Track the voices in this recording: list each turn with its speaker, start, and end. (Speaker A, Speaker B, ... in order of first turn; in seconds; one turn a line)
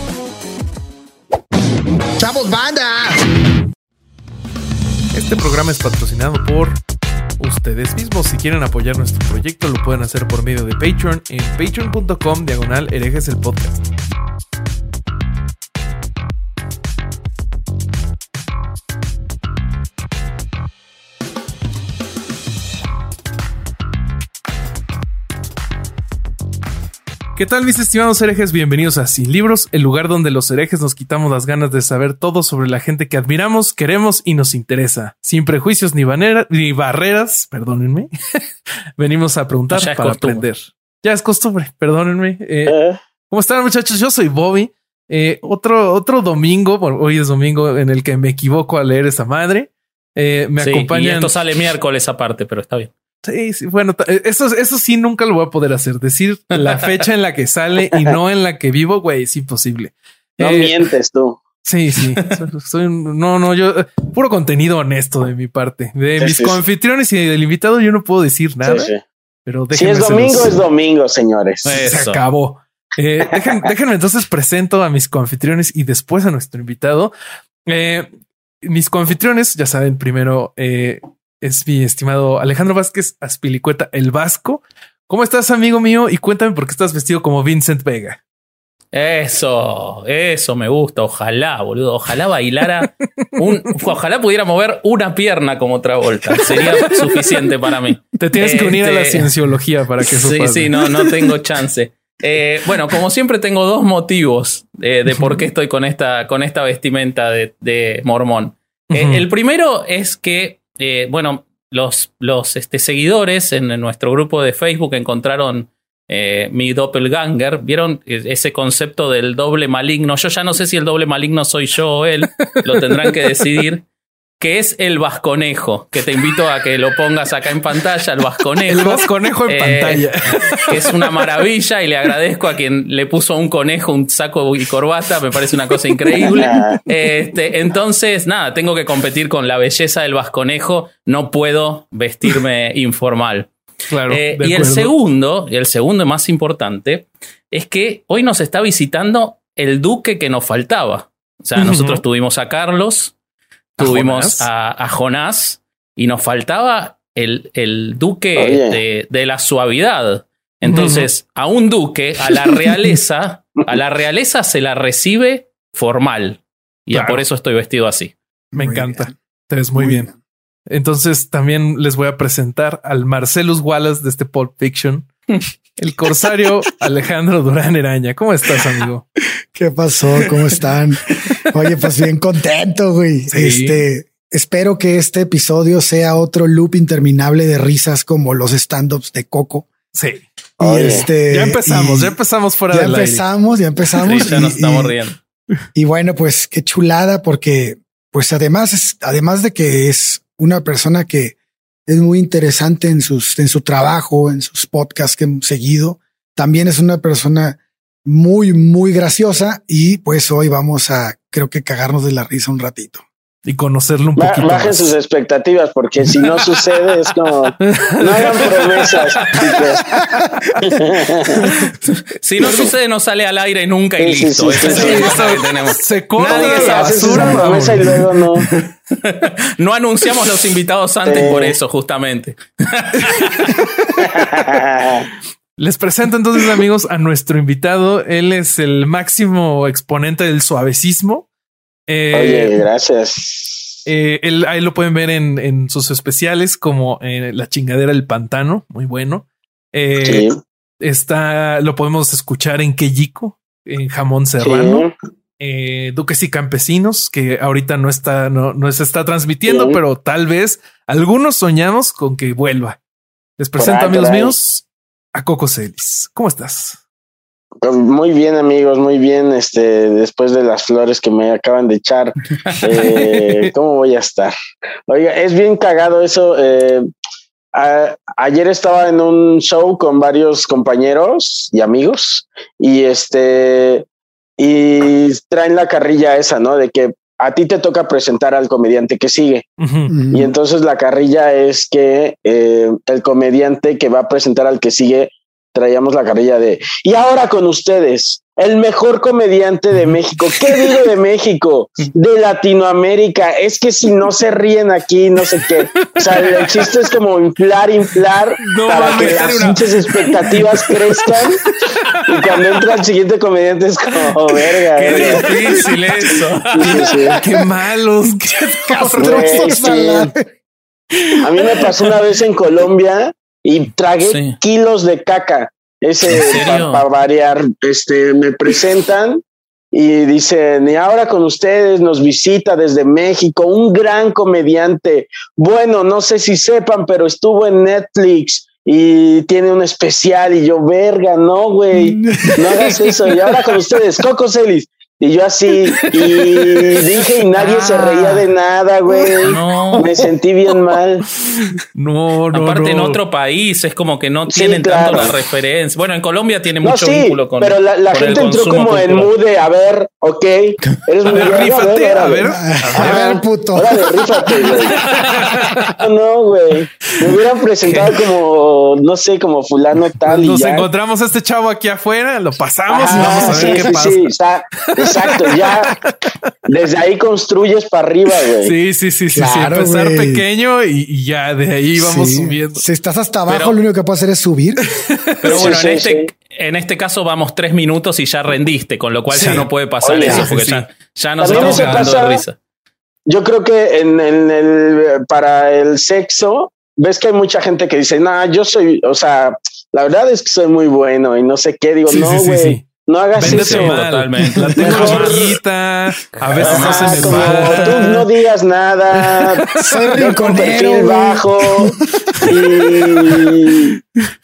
Speaker A: 2.2-3.2
Speaker B: 5.1-6.8
Speaker B: 7.4-13.9
Speaker B: 27.4-38.1
Speaker B: 39.0-42.8
Speaker C: 39.7-40.5
Speaker D: 42.7-43.0
Speaker B: 43.3-51.3
Speaker C: 50.6-52.9
Speaker B: 53.2-60.8
Speaker C: 56.6-57.0
Speaker D: 60.4-61.4
Speaker B: 61.6-68.9
Speaker D: 66.2-66.6
Speaker D: 68.6-69.0
Speaker B: 69.5-70.6
Speaker D: 69.7-71.7
Speaker C: 71.7-72.2
Speaker B: 71.8-77.1
Speaker B: 77.7-78.1
Speaker B: 78.6-88.2
Speaker C: 88.9-99.3
Speaker B: 96.3-97.5
Speaker B: 98.2-101.3
Speaker C: 100.1-123.8
Speaker B: 105.2-105.4
Speaker B: 108.9-109.2
Speaker B: 122.9-123.4
Speaker C: 124.4-130.1
Speaker B: 128.7-131.4
Speaker C: 130.7-143.5
Speaker B: 135.8-137.1
Speaker D: 136.3-136.8
Speaker B: 143.9-144.9
Speaker C: 144.1-153.1
Speaker B: 151.6-152.0
Speaker C: 153.8-168.1
Speaker B: 153.8-154.5
Speaker D: 158.4-158.8
Speaker B: 160.7-161.1
Speaker B: 162.4-162.9
Speaker B: 166.9-167.2
Speaker A: 168.5-169.2
Speaker B: 168.5-170.1
Speaker A: 169.8-170.2
Speaker B: 170.7-175.1
Speaker B: 175.8-179.0
Speaker A: 179.5-189.7
Speaker B: 183.3-183.8
Speaker B: 189.9-190.3
Speaker D: 190.6-191.1
Speaker A: 190.6-192.2
Speaker B: 190.8-193.2
Speaker A: 192.7-195.0
Speaker C: 194.0-195.2
Speaker A: 195.8-201.4
Speaker A: 201.9-213.1
Speaker B: 213.4-214.9
Speaker D: 214.2-219.8
Speaker B: 217.7-219.6
Speaker A: 220.0-220.6
Speaker D: 220.6-221.4
Speaker B: 221.4-221.8
Speaker C: 222.2-227.7
Speaker B: 222.4-222.7
Speaker D: 224.0-225.2
Speaker B: 224.6-228.5
Speaker D: 226.3-228.4
Speaker C: 229.0-233.6
Speaker D: 231.1-231.6
Speaker B: 233.1-233.8
Speaker D: 234.0-235.1
Speaker B: 235.6-241.3
Speaker B: 241.9-242.6
Speaker D: 242.1-243.8
Speaker B: 243.9-250.3
Speaker D: 250.0-250.4
Speaker B: 250.8-254.8
Speaker D: 254.4-254.9
Speaker B: 255.4-262.8
Speaker D: 259.5-259.8
Speaker B: 263.4-266.8
Speaker D: 263.6-264.4
Speaker D: 267.6-274.3
Speaker B: 272.8-273.5
Speaker D: 274.9-276.9
Speaker D: 277.5-283.9
Speaker D: 284.4-289.4
Speaker B: 289.6-289.9
Speaker A: 289.9-290.3
Speaker D: 290.1-311.4
Speaker B: 299.7-300.7
Speaker B: 305.3-306.7
Speaker B: 308.4-312.6
Speaker C: 308.8-309.2
Speaker D: 312.1-315.2
Speaker B: 314.8-320.0
Speaker C: 314.8-316.6
Speaker D: 316.5-317.2
Speaker A: 318.5-320.3
Speaker D: 319.0-320.1
Speaker B: 320.9-321.8
Speaker D: 321.2-351.0
Speaker C: 324.0-324.4
Speaker C: 326.1-326.8
Speaker A: 341.7-342.9
Speaker C: 347.4-348.2
Speaker C: 349.2-349.8
Speaker B: 351.2-353.0
Speaker C: 352.3-359.1
Speaker D: 354.3-355.1
Speaker D: 356.6-364.8
Speaker B: 361.1-363.2
Speaker A: 362.3-364.8
Speaker B: 364.8-365.7
Speaker C: 364.9-365.3
Speaker D: 365.8-370.7
Speaker B: 366.9-367.2
Speaker C: 367.6-367.9
Speaker B: 370.1-374.1
Speaker D: 372.7-375.8
Speaker A: 372.9-373.9
Speaker B: 374.8-375.9
Speaker D: 376.5-378.5
Speaker B: 378.4-382.6
Speaker A: 379.1-380.2
Speaker A: 381.8-384.7
Speaker C: 383.3-383.6
Speaker B: 385.2-385.5
Speaker C: 385.2-392.4
Speaker D: 385.2-386.1
Speaker B: 389.1-389.5
Speaker D: 389.8-390.3
Speaker B: 390.0-390.7
Speaker D: 391.2-392.2
Speaker B: 391.3-392.0
Speaker D: 393.1-403.8
Speaker B: 401.9-408.1
Speaker C: 403.2-405.3
Speaker A: 404.2-404.9
Speaker D: 404.6-405.3
Speaker C: 406.3-407.9
Speaker D: 406.4-409.4
Speaker A: 406.8-407.2
Speaker B: 409.0-410.1
Speaker A: 409.6-412.3
Speaker D: 410.0-411.7
Speaker D: 412.2-413.7
Speaker B: 413.0-413.3